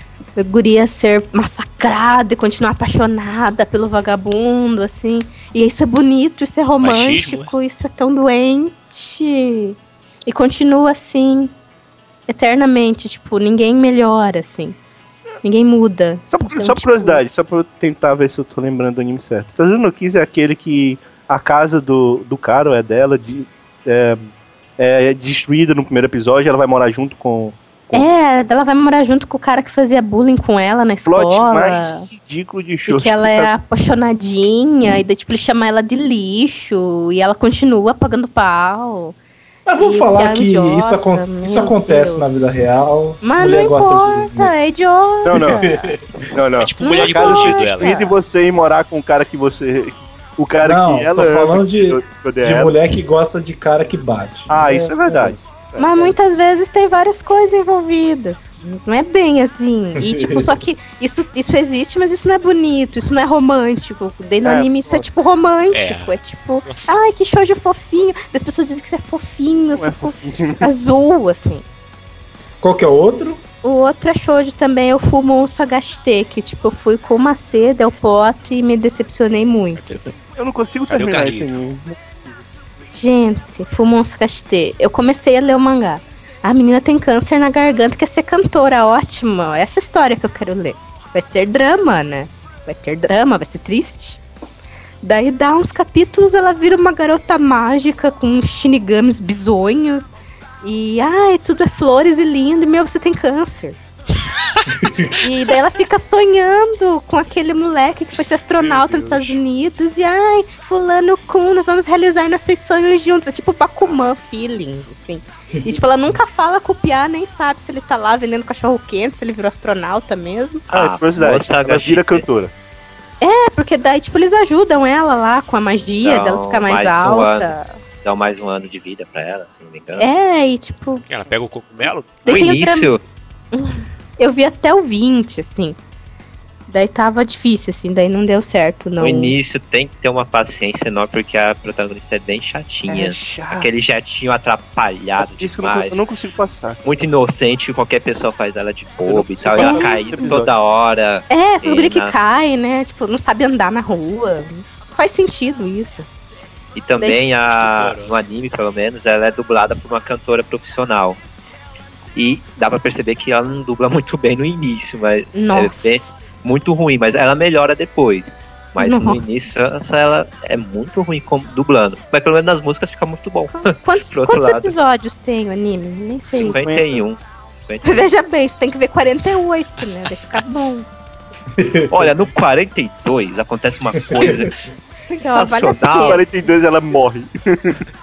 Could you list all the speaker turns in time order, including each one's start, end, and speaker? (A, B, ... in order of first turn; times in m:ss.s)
0:00.4-0:11.5 A
0:06.8-0:07.5 B
0:12.3-0:14.8 A
0:15.4-0:17.2 A
0:16.3-0:28.1 C
0:27.9-0:32.1 A
0:31.0-0:33.5 C
0:32.9-0:39.1 A
0:39.7-0:44.5 D
0:39.8-0:42.5 A
0:43.2-0:46.0 A
0:45.2-0:45.6 C
0:45.3-0:46.0 D
0:46.3-0:52.7 C
0:46.6-0:48.0 B
0:46.8-0:48.1 A
0:50.6-0:56.1 D
0:54.5-0:55.9 C
0:55.8-1:11.6 A
1:00.0-1:00.6 D
1:04.4-1:05.0 C
1:05.7-1:06.9 B
1:09.7-1:10.7 C
1:12.6-1:13.4 D
1:13.6-1:20.1 A
1:19.8-1:20.1 B
1:20.4-1:22.4 C
1:20.9-1:21.5 B
1:22.9-1:34.2 A
1:35.0-1:40.1 A
1:40.6-1:43.8 A
1:45.2-2:00.6 A
1:48.6-1:49.3 C
2:00.7-2:02.2 E
2:00.7-2:02.5 C
2:03.2-2:07.8 A
2:06.0-2:10.1 E
2:10.0-2:11.0 A
2:11.0-2:12.5 B
2:12.2-2:12.9 A
2:12.2-2:13.0 E
2:13.5-2:15.8 A
2:16.7-2:19.3 A
2:19.0-2:26.0 E
2:22.9-2:23.7 C
2:25.2-2:26.8 C
2:26.8-2:32.1 E
2:29.0-2:30.5 C
2:29.6-2:30.3 A
2:31.3-2:36.1 A
2:36.7-2:41.2 E
2:37.5-2:38.1 B
2:42.1-2:54.8 E
2:45.3-2:46.3 A
2:48.8-2:49.2 A
2:53.5-2:56.6 A
2:56.3-2:58.1 E
2:56.4-2:57.0 C
2:57.8-3:00.8 A
3:01.6-3:02.1 D
3:01.9-3:04.6 E
3:04.0-3:04.5 D
3:05.1-3:06.3 E
3:05.1-3:06.2 A
3:06.0-3:07.8 C